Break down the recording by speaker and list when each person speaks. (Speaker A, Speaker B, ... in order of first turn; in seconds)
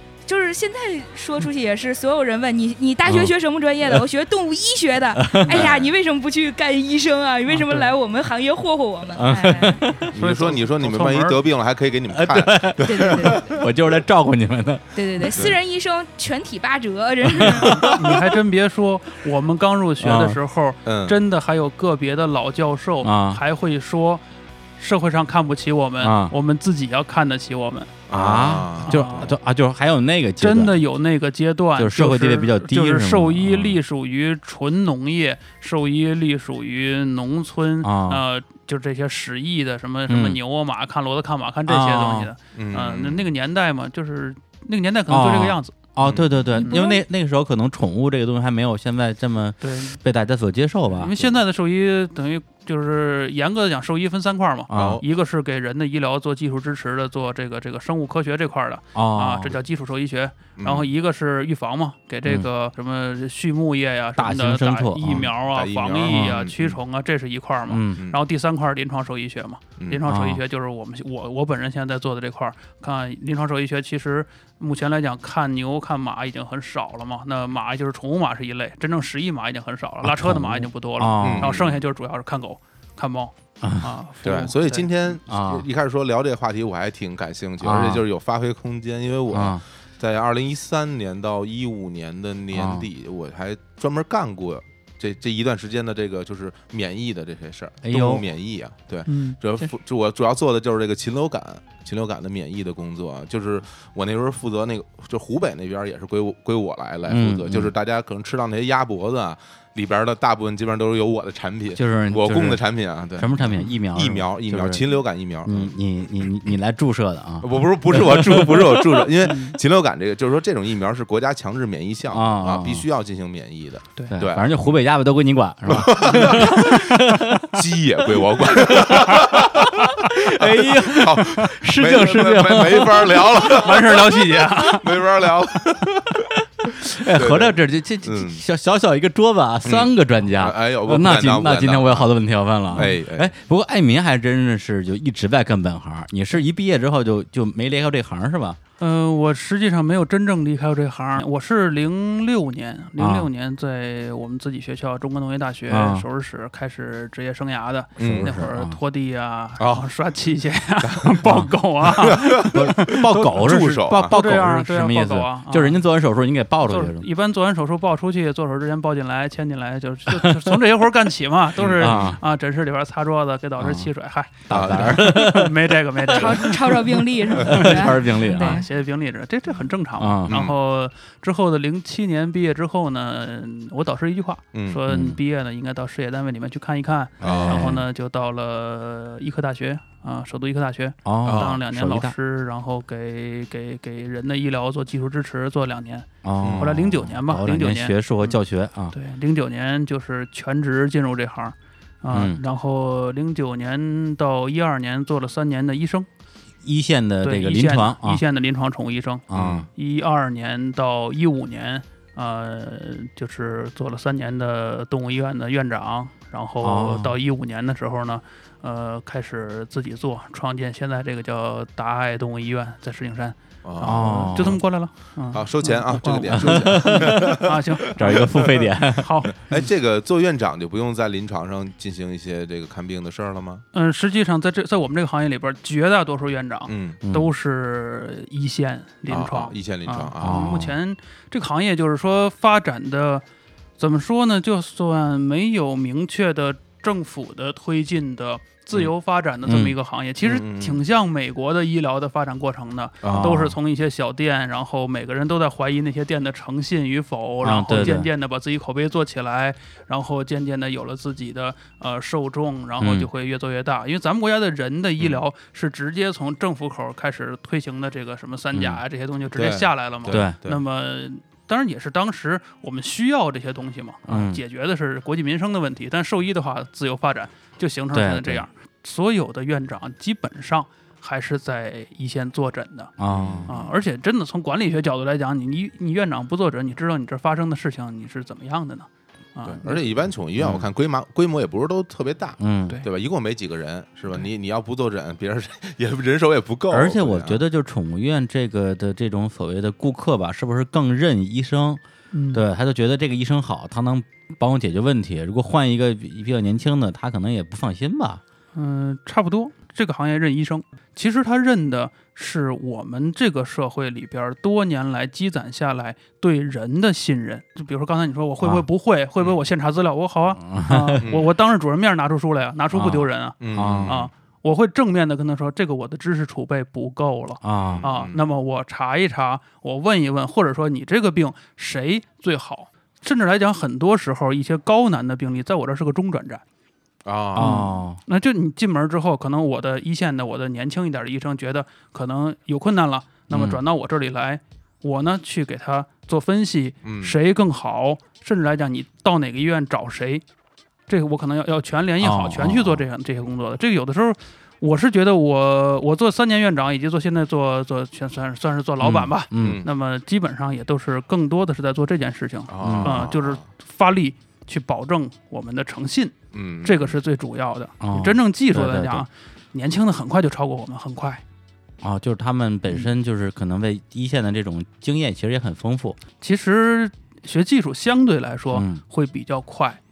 Speaker A: 0.2-9.8, 12.8-13.6, 14.9-18.0, 46.6-47.0, 176.1-178.7
Speaker B: 3.0-3.3, 5.1-5.7, 9.2-10.1, 12.1-15.4, 17.3-18.2, 20.0-20.4, 23.0-23.4, 26.0-26.3, 28.1-30.8, 31.8-33.8, 37.8-38.2, 40.1-40.4, 41.7-42.3, 45.1-51.1, 54.7-55.0, 58.9-59.5, 64.2-65.3, 66.1-66.4, 67.7-68.0, 70.0-70.4, 80.0-81.6, 83.6-83.9, 85.3-85.6, 87.6-88.0, 89.3-89.6, 92.5-92.9, 97.8-98.2, 107.1-107.7, 111.7-112.6, 113.1-119.1, 122.1-122.9, 124.1-127.6, 128.4-133.8, 136.2-148.6, 153.0-153.3, 155.7-156.0, 158.0-158.8, 162.5-167.1, 170.1-170.6, 171.8-172.2, 173.6-173.9, 174.5-175.6, 177.3-178.6, 180.0-180.4, 184.9-185.2, 187.2-187.8, 191.0-192.1, 196.2-198.9, 202.1-202.4, 206.6-208.2, 209.3-209.7, 216.6-217.2, 223.8-224.6, 226.3-229.3, 237.0-237.3, 240.2-240.7, 249.5-249.7, 253.0-253.5, 257.4-258.1, 262.8-263.1, 268.5-268.8, 270.1-270.4, 274.1-274.4, 277.9-278.4, 283.0-283.5, 290.4-290.7, 292.4-292.8, 296.7-301.8, 302.3-308.2, 320.4-321.0, 322.8-324.0, 327.4-327.9, 337.3-338.0, 343.3-343.6, 352.0-352.8, 358.8-359.6, 362.6-363.1, 367.8-369.0, 371.8-376.0, 378.5-378.8
Speaker C: 5.5-5.9, 10.1-13.6, 20.9-21.2, 28.1-29.3, 42.5-43.2, 46.0-46.5, 54.7-55.0, 60.6-60.9, 65.4-66.8, 81.2-81.8, 84.2-115.7, 117.4-124.6, 125.7-126.9, 127.5-136.2, 136.9-138.4, 139.6-142.1, 142.7-143.3, 158.0-158.3, 159.6-159.9, 160.8-161.1, 162.0-164.2, 171.6-172.2, 174.5-175.3, 177.4-177.7, 180.3-180.5, 184.5-184.8, 187.2-187.8, 191.2-191.6, 196.4-196.7, 209.3-209.7, 223.6-224.6, 225.3-228.7, 229.5-233.6, 236.7-237.0, 239.1-240.7, 250.2-250.8, 253.0-253.5, 269.4-270.6, 283.1-283.7, 289.5-297.4, 321.0-321.3, 323.4-324.1, 327.6-328.2, 337.0-337.6, 346.8-347.1, 359.3-359.7, 362.5-363.4, 366.3-366.9
Speaker D: 7.5-7.9, 9.9-11.4, 17.7-24.2, 24.8-27.9, 28.8-29.3, 30.4-45.7, 46.6-46.8, 49.6-50.0, 50.9-84.9, 99.1-99.4, 119.2-119.6, 126.1-127.0, 133.3-134.9, 148.8-163.4, 164.1-165.8, 166.6-198.4, 198.9-206.1, 207.2-229.7, 233.7-243.2, 243.8-282.9, 283.5-289.9, 302.1-302.4, 308.5-336.4, 337.4-350.2, 350.9-371.2, 376.2-379.8